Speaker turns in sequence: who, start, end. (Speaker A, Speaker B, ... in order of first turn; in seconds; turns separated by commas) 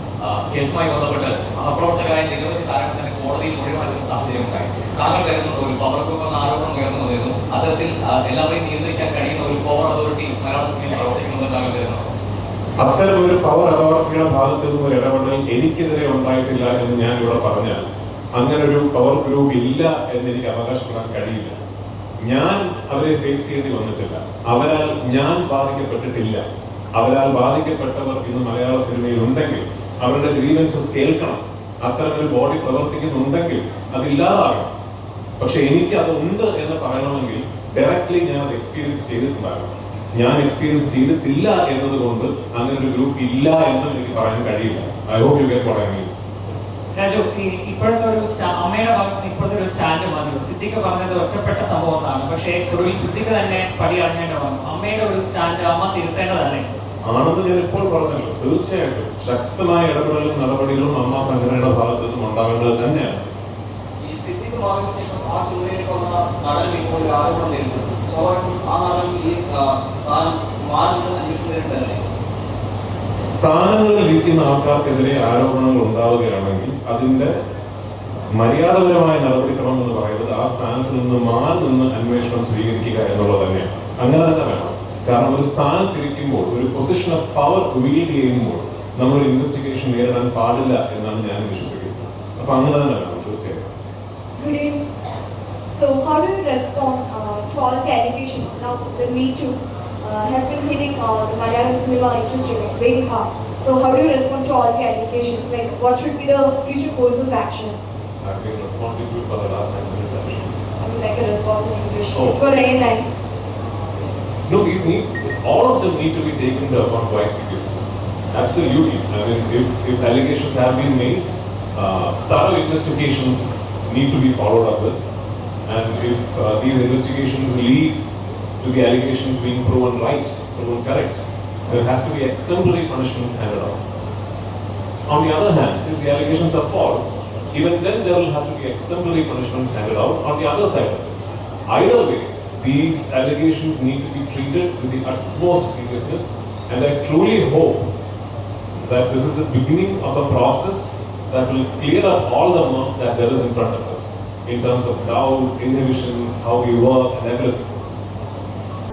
Speaker A: 0.2-12.1, Speaker B: 12.8-21.6, Speaker B: 22.2-26.4, Speaker B: 26.9-34.7, Speaker B: 35.4-46.1, Speaker C: 47.0-56.7, Speaker B: 57.0-63.3, Speaker D: 64.0-72.0, Speaker B: 73.2-77.3, Speaker B: 78.3-93.7, Speaker E: 94.4-94.8, Speaker E: 95.7-107.8, Speaker B: 108.2-110.6, Speaker E: 110.8-113.1, Speaker B: 112.1-112.5, Speaker B: 114.5-125.0, Speaker B: 125.7-128.0, Speaker B: 128.6-133.8, Speaker B: 135.1-147.9, Speaker B: 148.8-157.6